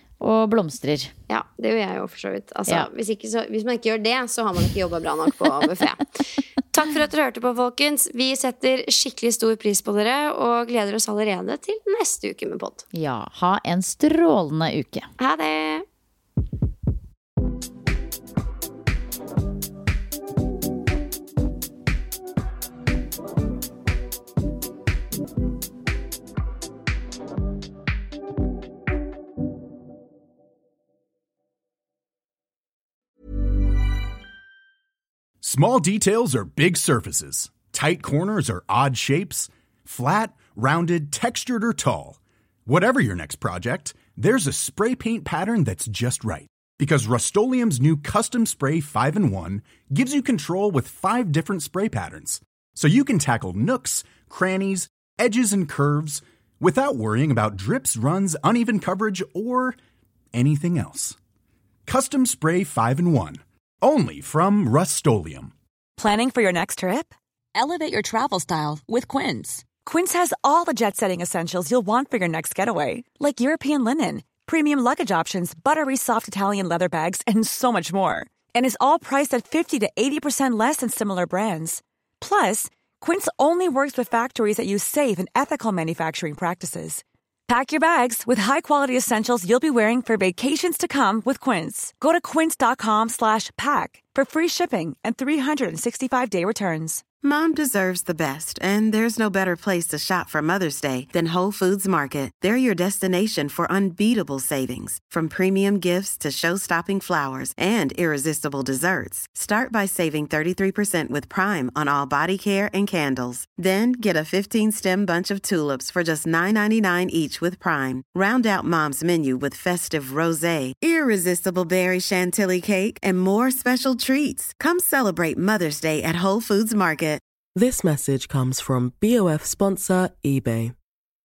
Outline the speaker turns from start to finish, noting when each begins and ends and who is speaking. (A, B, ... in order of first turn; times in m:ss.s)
0:00.2-0:01.1 A
0:01.3-0:12.8 B
0:12.9-0:15.1 A
0:15.2-0:15.8 B
0:35.4-0:59.8 C
1:00.3-1:01.2 C
1:01.9-1:05.5 C
1:06.0-1:37.0 D
1:37.2-2:07.2 E
2:07.5-2:10.7 F